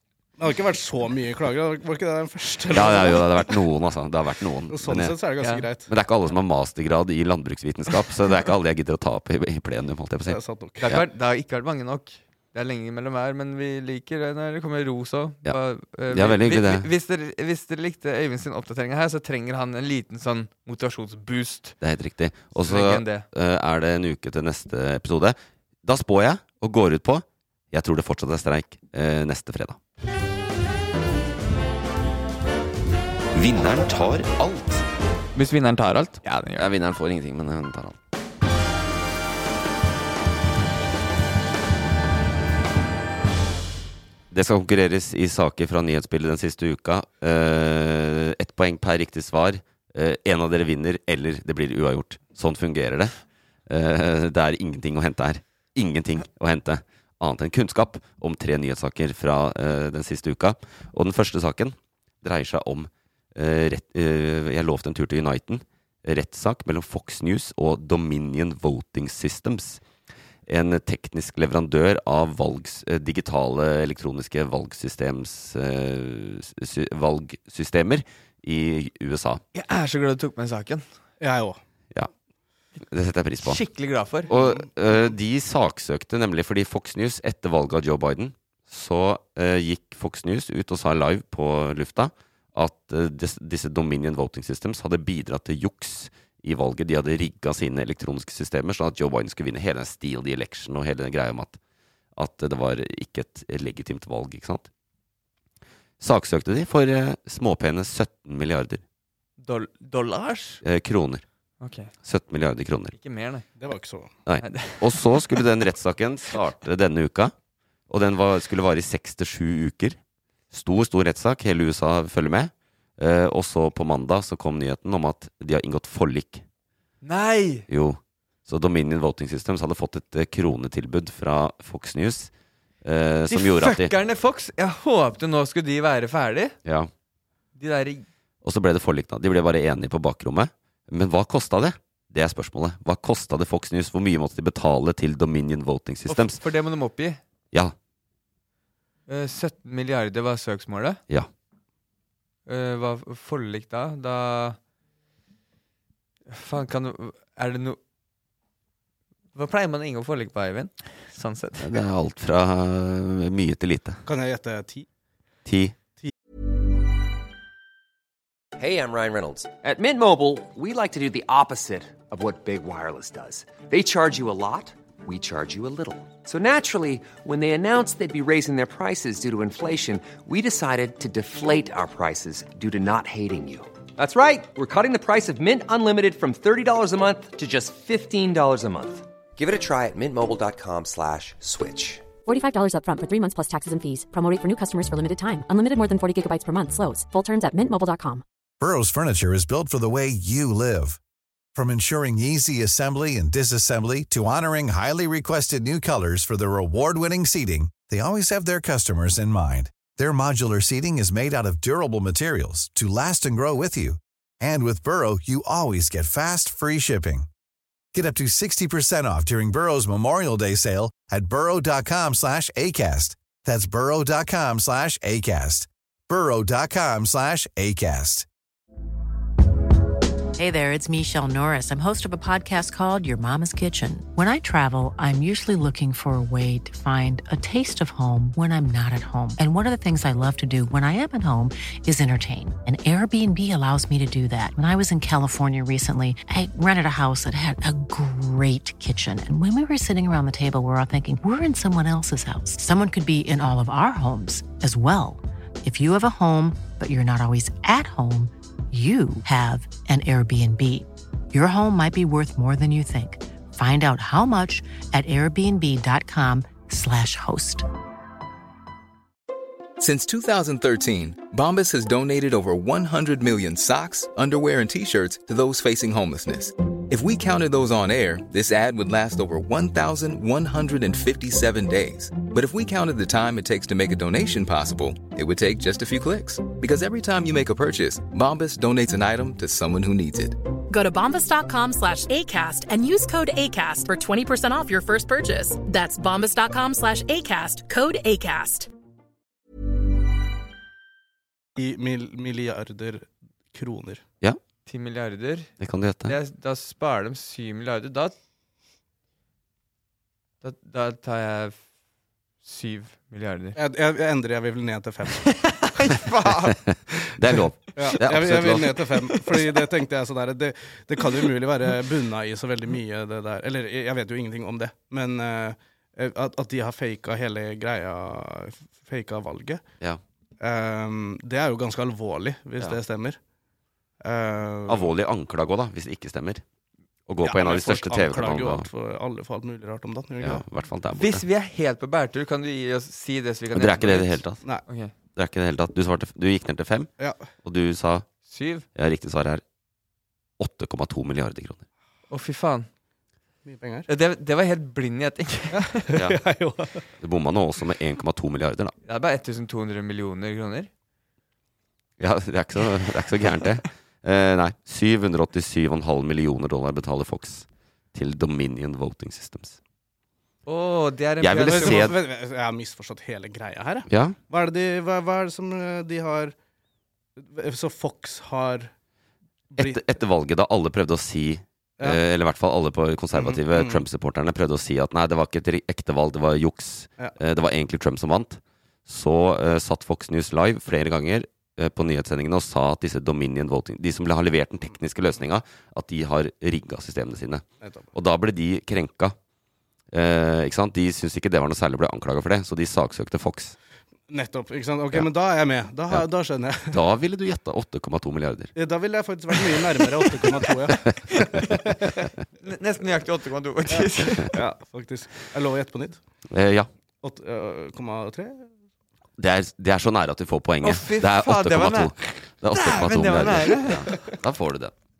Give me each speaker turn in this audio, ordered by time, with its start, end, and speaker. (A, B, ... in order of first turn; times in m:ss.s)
0:00.4-0:03.4 A
0:02.7-0:05.2 B
0:04.7-0:05.9 A
0:05.9-0:11.1 B
0:10.3-0:10.8 A
0:10.8-0:21.8 C
0:16.1-0:16.9 B
0:21.8-0:29.8 B
0:22.6-0:23.3 C
0:33.3-0:34.9 B
0:35.4-0:36.7 C
0:36.6-0:38.0 B
0:44.3-0:53.1 B
0:53.7-1:09.8 B
1:10.5-1:19.4 B
1:19.5-1:20.8 C
1:21.2-1:21.6 A
1:22.8-1:23.6 B
1:23.4-1:24.3 C
1:24.3-1:41.6 B
1:24.3-1:24.6 A
1:42.2-1:44.7 B
1:46.0-1:48.8 B
1:49.4-1:50.6 C
1:50.6-1:51.2 B
1:51.6-1:51.9 C
1:52.0-1:52.9 B
1:53.0-1:53.5 C
1:53.6-1:54.1 A
1:54.3-1:57.3 B
1:54.4-1:55.4 C
1:57.9-2:00.0 B
2:00.5-2:06.4 B
2:07.0-2:07.7 C
2:07.7-2:12.3 B
2:12.8-2:13.9 B
2:13.3-2:16.6 C
2:16.6-2:16.9 B
2:17.6-2:18.1 C
2:18.4-2:26.4 B
2:26.1-2:27.2 C
2:29.1-2:31.0 C
2:32.5-2:34.6 C
2:36.3-2:37.8 C
2:39.4-2:41.7 C
2:41.6-2:44.0 B
2:44.1-2:44.9 A
2:45.4-2:45.8 B
2:48.6-3:12.1 D
3:12.2-3:18.2 E
3:18.6-3:21.0 F
3:21.6-3:37.3 F
3:37.9-3:48.3 F
3:50.4-4:27.7 G
4:29.8-4:50.4 H
4:50.7-4:58.7 I
5:01.6-5:04.0 A
5:04.7-5:05.5 C
5:05.6-5:06.2 B
5:06.0-5:08.1 C
5:10.4-5:11.6 C
5:12.4-5:13.6 C
5:13.6-5:15.5 A
5:15.3-5:16.6 C
5:16.6-5:18.8 B
5:17.8-5:29.6 A
5:30.4-5:33.2 A
5:34.0-5:34.9 A
5:34.7-5:36.4 B
5:37.1-5:38.7 B
5:37.2-5:40.4 A
5:40.2-5:41.2 B
5:41.0-5:44.9 C
5:43.5-5:44.4 B
5:45.1-5:46.9 B
5:47.0-5:47.2 A
5:47.4-5:48.1 B
5:48.3-5:48.7 C
5:48.8-5:49.4 B
5:50.4-5:51.6 B
5:52.1-5:52.7 C
5:53.4-5:53.9 A
5:53.9-5:55.8 C
5:55.5-5:56.8 A
5:55.9-5:56.2 B
5:57.0-5:58.8 B
5:58.9-6:00.7 C
6:02.0-6:09.6 B
6:10.5-6:11.9 C
6:11.2-6:12.0 B
6:11.5-6:16.3 A
6:13.9-6:14.2 B
6:17.2-6:18.7 A
6:19.5-6:19.8 A
6:19.6-6:39.2 B
6:23.1-6:23.8 A
6:37.6-6:37.9 A
6:39.9-6:43.6 B
6:44.1-6:46.8 A
6:46.7-6:48.5 B
6:48.6-6:50.9 A
6:51.1-6:51.6 C
6:52.4-6:54.3 C
6:54.3-6:56.0 A
6:56.3-6:56.7 B
6:57.0-6:58.5 A
6:59.2-7:04.8 B
7:00.6-7:04.1 C